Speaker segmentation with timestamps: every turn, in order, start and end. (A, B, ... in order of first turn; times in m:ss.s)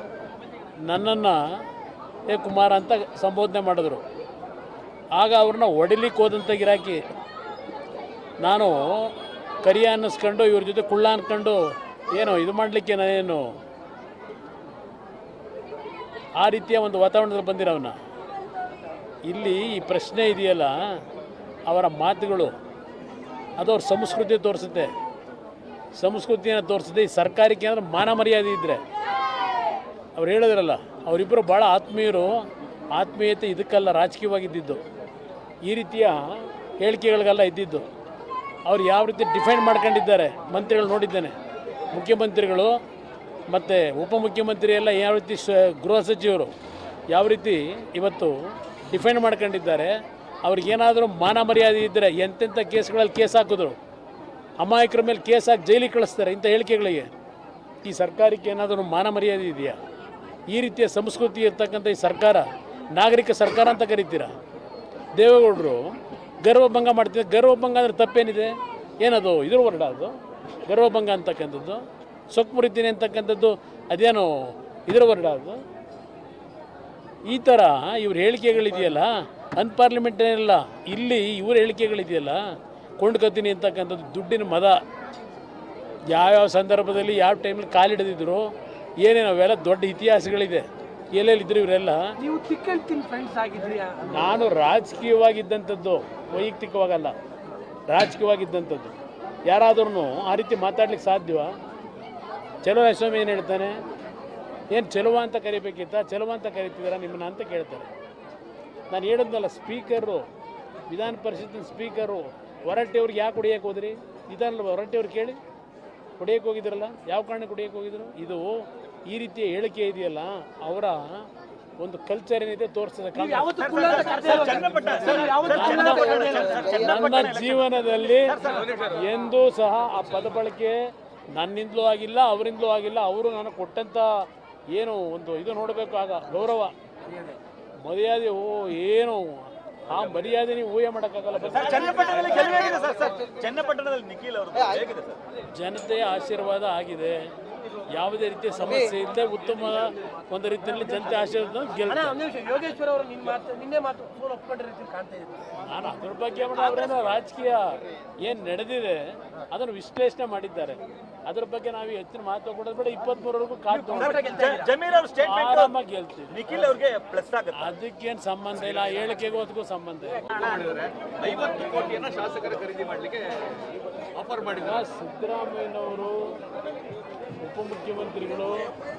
0:00.8-0:01.6 A
0:02.3-0:04.0 A
0:05.1-0:07.0 A
0:08.4-0:13.6 A
0:16.4-0:18.0 A
0:19.2-0:21.0 A
0:21.7-0:22.5 A
0:23.6-0:24.9 A
0:25.9-0:28.8 A
0:30.1-0:34.8 A
0:35.6-0:37.9 A
0:38.6-0:41.3 A
0:41.9-0:42.8 A
0:43.5-0:46.5 A
0:47.1-0:53.8 A
0:54.6-0:57.1 A
0:57.8-0:59.8 A
1:00.5-1:04.3 A
1:05.2-1:10.1 A
1:10.6-1:15.6 A
1:17.3-1:24.8 A
1:26.1-1:32.2 A
1:32.2-1:34.3 B
1:34.0-1:37.1 A
1:37.9-1:38.9 A
1:39.5-1:41.6 A
1:42.6-1:43.8 A
1:44.7-1:47.9 A
1:48.9-1:50.3 A
1:50.9-1:55.4 A
1:56.2-2:01.3 A
2:01.8-2:04.3 A
2:03.2-2:06.8 B
2:03.6-2:07.6 C
2:05.5-2:10.8 A
2:08.2-2:08.8 C
2:11.3-2:16.7 A
2:17.8-2:22.1 A
2:21.5-2:25.2 C
2:22.0-2:22.7 B
2:25.5-2:27.3 A
2:27.9-2:32.2 A
2:31.9-2:35.6 B
2:35.6-2:44.3 A
2:43.7-2:44.7 B
2:43.9-2:45.7 C
2:45.2-2:46.4 A
2:46.3-2:47.7 C
2:47.6-2:50.4 A
2:50.5-2:53.3 D
2:54.2-2:54.6 D
2:54.5-2:56.4 A
2:57.4-2:58.7 A